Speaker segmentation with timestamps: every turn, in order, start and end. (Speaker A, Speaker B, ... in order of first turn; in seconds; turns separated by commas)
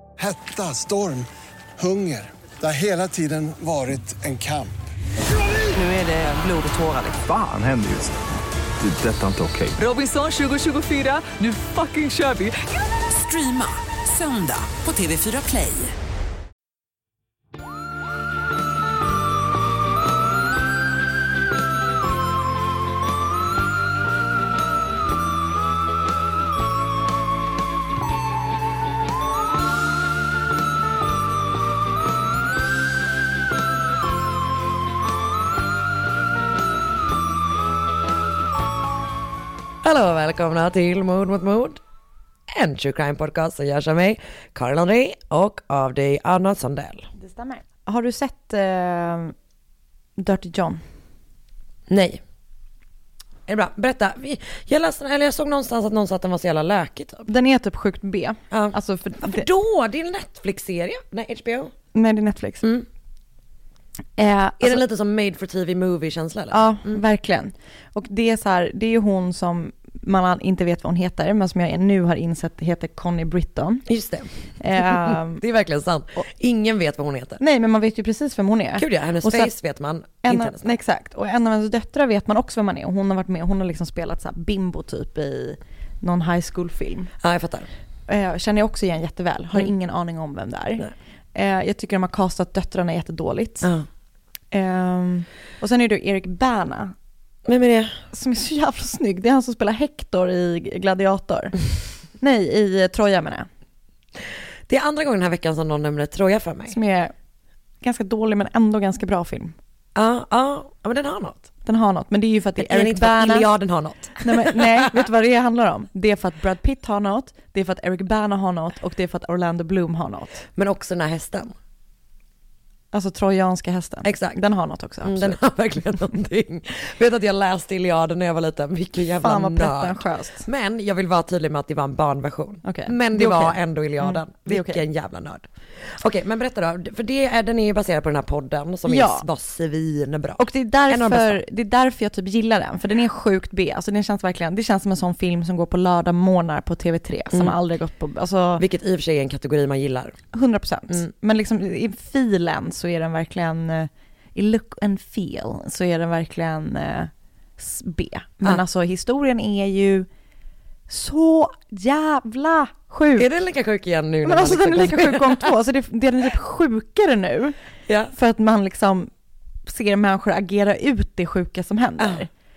Speaker A: 0.2-4.8, Speaker B: 5.7-7.2, Speaker C: 7.2-8.2, Speaker C: 8.8-9.8, Speaker B: 9.8-15.9, Speaker D: 39.8-41.8, Speaker D: 42.5-47.1, Speaker E: 47.2-49.3, Speaker E: 50.2-50.8, Speaker D: 51.9-52.2, Speaker D: 53.5-57.3, Speaker E: 57.3-59.5, Speaker D: 58.5-61.7, Speaker E: 61.9-62.7, Speaker E: 64.2-64.8, Speaker D: 64.6-67.0, Speaker E: 66.5-73.9, Speaker D: 73.9-77.4, Speaker E: 74.6-75.4, Speaker E: 77.4-79.5, Speaker D: 78.8-80.7, Speaker E: 80.2-87.1, Speaker D: 87.2-87.7, Speaker E: 88.1-93.7, Speaker E: 94.5-96.9, Speaker D: 97.5-98.0, Speaker E: 98.1-101.6, Speaker E: 102.2-103.5, Speaker D: 104.7-106.8, Speaker E: 106.7-107.1, Speaker E: 107.8-109.6, Speaker D: 110.0-111.5, Speaker E: 111.7-113.5, Speaker D: 112.6-115.0, Speaker E: 114.2-120.5, Speaker D: 120.5-121.5, Speaker E: 122.9-125.4, Speaker D: 124.0-124.4, Speaker D: 125.0-141.4, Speaker E: 129.2-130.4, Speaker E: 132.6-134.8, Speaker E: 138.9-139.2, Speaker E: 140.4-148.7, Speaker D: 148.6-150.2, Speaker E: 150.3-160.1, Speaker E: 160.9-163.3, Speaker D: 163.2-165.5, Speaker E: 164.2-167.6, Speaker D: 167.9-168.1, Speaker E: 168.1-169.1, Speaker E: 169.7-172.3, Speaker D: 172.0-172.2